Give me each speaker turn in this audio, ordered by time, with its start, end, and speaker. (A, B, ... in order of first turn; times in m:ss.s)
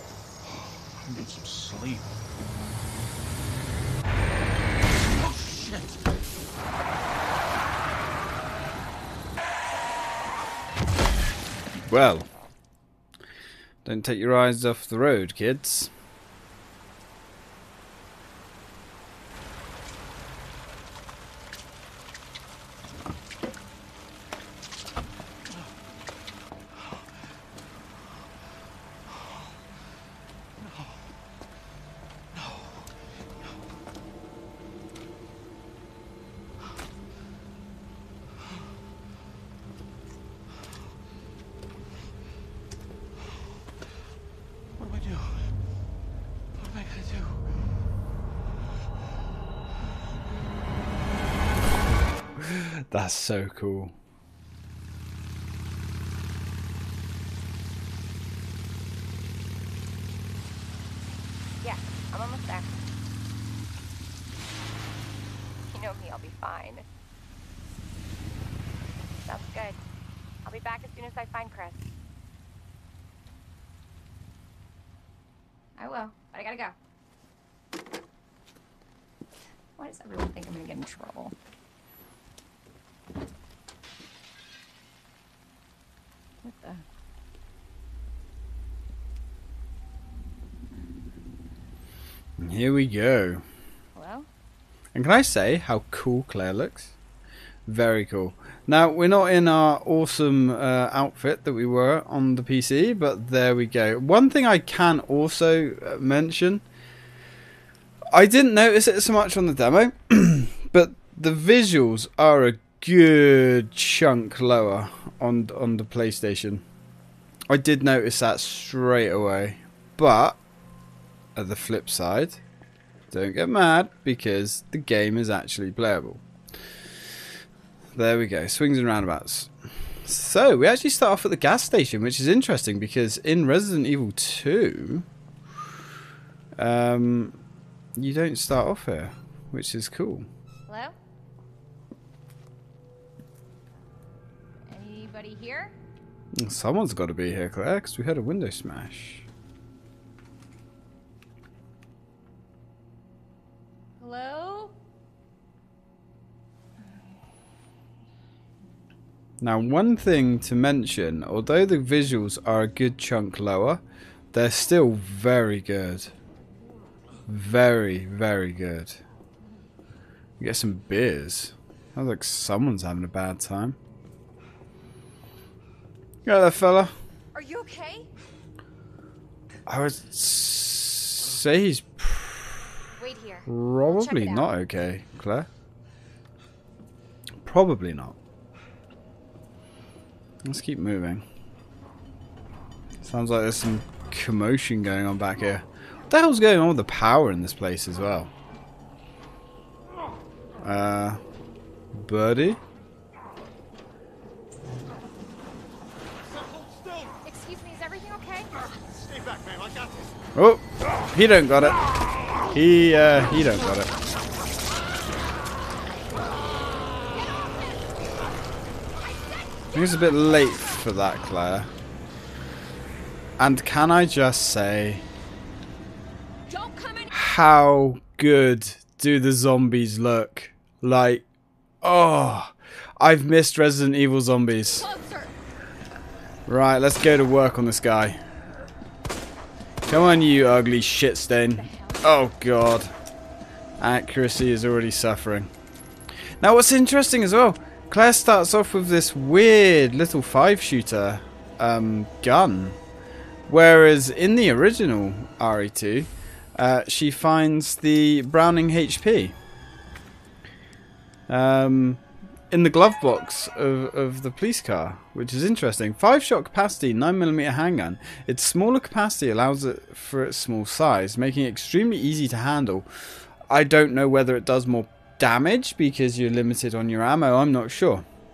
0:01.0-0:02.2 A
0:05.2-0:06.0 A
0:11.9-0:12.3 B
0:13.8-0:15.9 B
0:44.8-0:45.5 A
0:46.6-0:47.5 A
0:52.4-0:53.9 B
1:01.6-1:02.7 C
1:05.7-1:06.8 C
1:09.3-1:09.8 C
1:10.4-1:11.9 C
1:15.8-1:16.8 C
1:19.8-1:21.4 C
1:26.4-1:26.8 C
1:32.4-1:33.4 B
1:34.0-1:34.3 C
1:34.9-1:36.9 B
1:37.7-1:46.6 B
1:48.1-1:56.6 B
1:57.5-2:00.4 B
2:01.4-2:02.4 B
2:03.1-2:06.2 B
2:08.0-2:09.5 B
2:10.0-2:15.1 B
2:16.6-2:17.4 B
2:18.0-2:20.3 B
2:20.7-2:21.0 C
2:24.7-2:25.7 C
2:26.4-2:29.3 B
2:34.0-2:34.7 C
2:39.4-2:46.1 B
2:47.3-2:49.0 B
2:50.4-2:53.8 B
2:56.2-2:56.9 B
2:57.3-2:58.1 C
2:59.7-3:02.7 B
3:03.0-3:04.5 C
3:03.5-3:05.5 B
3:07.4-3:08.2 B
3:10.4-3:11.2 B
3:13.0-3:18.3 B
3:20.6-3:21.2 B
3:21.9-3:22.6 B
3:27.2-3:28.5 C
3:29.1-3:29.9 A
3:30.4-3:31.8 B
3:32.4-3:33.9 B
3:37.0-3:37.9 C
3:39.0-3:40.2 C
3:39.7-3:41.7 B
3:43.4-3:45.0 B
3:46.5-3:47.2 C
3:47.1-3:51.2 B
3:51.8-3:54.9 B
3:54.7-3:55.4 C
3:56.5-3:58.2 B
3:59.9-4:02.9 B
4:01.5-4:02.1 C
4:03.8-4:05.5 B
4:06.4-4:12.8 B
4:13.5-4:19.4 B
4:21.3-4:32.9 B
4:33.5-4:38.0 B